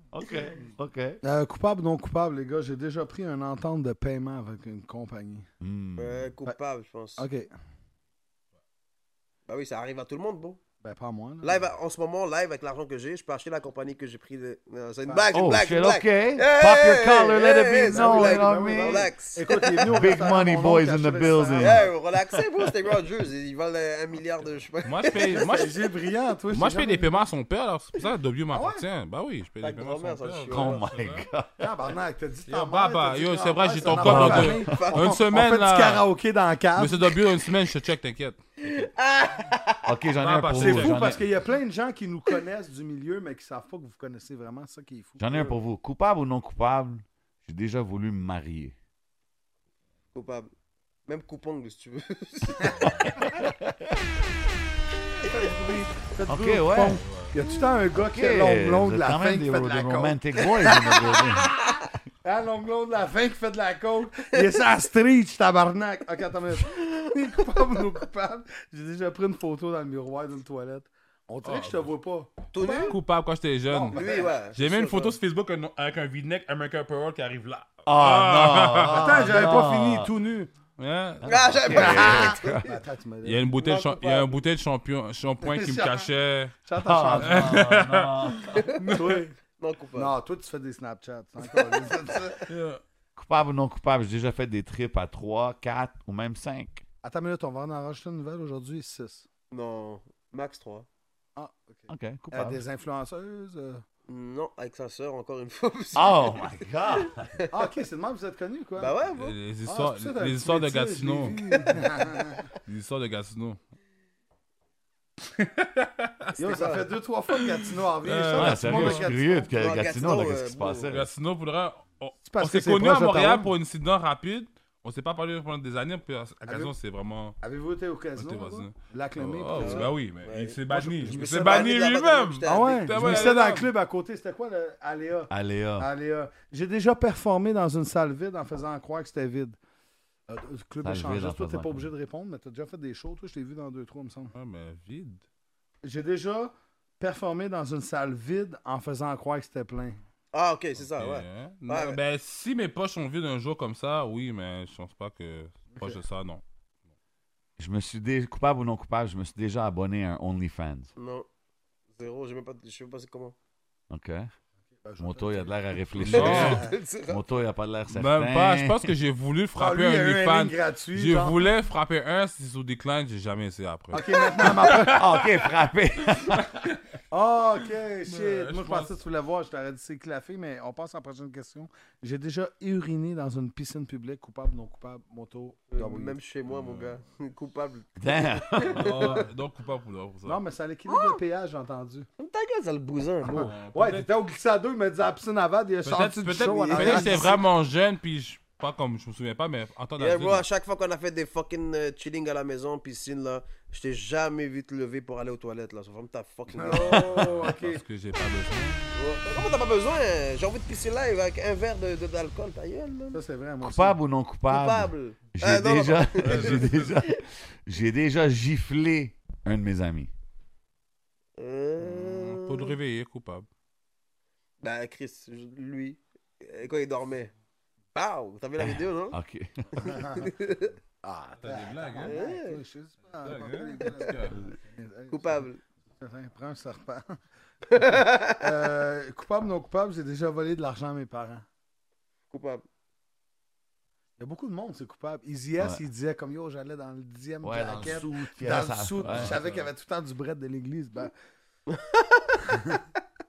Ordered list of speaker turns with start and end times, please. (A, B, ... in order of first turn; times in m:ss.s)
0:00.1-0:01.2 A
0:01.2-0:05.5 B
0:05.6-0:06.3 A
0:06.0-0:07.3 C
0:07.2-0:07.5 B
0:09.5-0:10.6 C
0:10.8-0:11.6 B
0:11.4-0:20.2 C
0:15.1-0:15.3 B
0:15.3-0:19.1 A
0:17.8-0:22.0 B
0:19.8-0:21.9 A
0:21.6-0:25.7 C
0:24.8-0:25.8 D
0:25.3-0:27.2 B
0:26.5-0:31.3 D
0:28.5-0:28.8 B
0:29.6-0:30.8 C
0:30.5-0:31.7 A
0:31.6-0:37.2 B
0:32.5-0:36.1 D
0:33.9-0:34.7 A
0:34.6-0:35.2 C
0:36.8-0:38.9 D
0:38.6-0:39.9 C
0:39.8-0:41.3 A
0:40.2-0:41.2 D
0:40.6-0:45.5 B
0:45.2-0:48.8 A
0:50.1-0:50.5 C
0:51.1-0:52.9 C
0:52.8-0:53.1 D
0:55.2-1:01.2 B
0:56.3-0:57.0 A
0:57.0-0:57.3 D
0:58.0-1:01.6 A
1:00.6-1:01.8 C
1:02.2-1:13.0 B
1:11.4-1:11.9 D
1:12.5-1:13.0 C
1:12.8-1:19.3 D
1:13.7-1:14.3 B
1:13.9-1:15.2 C
1:17.9-1:20.1 A
1:18.9-1:20.5 B
1:20.8-1:22.0 D
1:21.2-1:22.7 C
1:21.6-1:22.7 A
1:21.7-1:23.5 B
1:23.2-1:26.6 D
1:23.6-1:24.3 C
1:25.4-1:26.1 B
1:26.7-1:27.7 B
1:26.8-1:28.6 A
1:27.2-1:29.3 D
1:28.9-1:29.4 B
1:29.6-1:30.1 C
1:30.0-1:32.5 B
1:31.5-1:31.9 C
1:32.5-1:32.8 D
1:33.2-1:36.8 A
1:37.0-1:39.3 B
1:39.5-1:40.9 C
1:41.4-1:43.8 B
1:41.9-1:42.6 A
1:44.1-1:47.5 C
1:46.0-1:47.3 A
1:47.5-1:49.0 B
1:48.8-1:49.4 C
1:49.2-1:51.4 D
1:49.7-1:52.4 B
1:51.5-1:51.8 C
1:52.6-1:53.6 D
1:55.4-1:56.6 D
1:56.4-1:59.6 B
1:56.4-1:56.9 C
1:58.0-1:59.1 D
1:58.3-2:01.1 A
1:59.6-2:00.9 C
2:00.9-2:07.4 D
2:02.3-2:03.5 B
2:06.5-2:06.7 B
2:07.4-2:09.9 B
2:08.2-2:13.7 D
2:09.6-2:13.3 C
2:10.7-2:11.7 B
2:12.4-2:19.6 B
2:15.3-2:15.9 A
2:20.3-2:24.3 B
2:20.8-2:21.9 A
2:24.3-2:25.2 D
2:25.8-2:30.0 B
2:30.3-2:32.0 C
2:30.9-2:36.4 D
2:35.7-2:36.0 B
2:37.6-2:40.9 A
2:41.0-2:41.3 C
2:42.0-2:43.4 C
2:43.9-2:44.3 A
2:44.8-2:46.7 B
2:45.0-2:48.9 A
2:46.0-2:46.6 D
2:46.1-2:47.2 C
2:47.9-2:55.3 D
2:49.6-2:51.4 B
2:53.9-2:55.2 B
2:54.9-2:56.5 A
2:56.4-2:56.8 D
2:57.1-3:06.2 B
2:58.1-2:58.9 D
3:05.7-3:09.3 C
3:06.5-3:07.0 D
3:08.0-3:09.0 A
3:08.7-3:10.4 D
3:10.2-3:12.1 B
3:10.9-3:11.2 C
3:12.2-3:13.5 C
3:13.2-3:17.4 B
3:13.3-3:14.1 D
3:15.8-3:20.4 D
3:16.5-3:17.3 C
3:20.0-3:27.3 C
3:26.5-3:27.8 B
3:26.7-3:28.9 D
3:28.9-3:33.2 C
3:33.1-3:34.0 B
3:33.6-3:40.1 A
3:34.5-3:36.6 C
3:36.2-3:37.0 D
3:41.4-3:42.8 C
3:41.8-3:43.5 D
3:44.6-3:47.3 C
3:47.9-3:49.2 C
3:48.6-3:49.9 A
3:49.8-3:50.7 C
3:49.8-3:50.4 B
3:51.0-3:55.5 B
3:51.4-3:52.2 D
3:52.0-3:52.6 C
3:53.2-3:54.4 D
3:53.8-3:54.2 C
3:55.1-3:55.6 C
3:56.0-3:57.2 B
3:57.7-3:58.4 C
3:57.8-4:01.4 B
4:02.3-4:02.6 C
4:04.2-4:11.1 B
4:05.6-4:05.8 A
4:07.4-4:09.4 A
4:09.0-4:09.7 D
4:11.7-4:12.6 C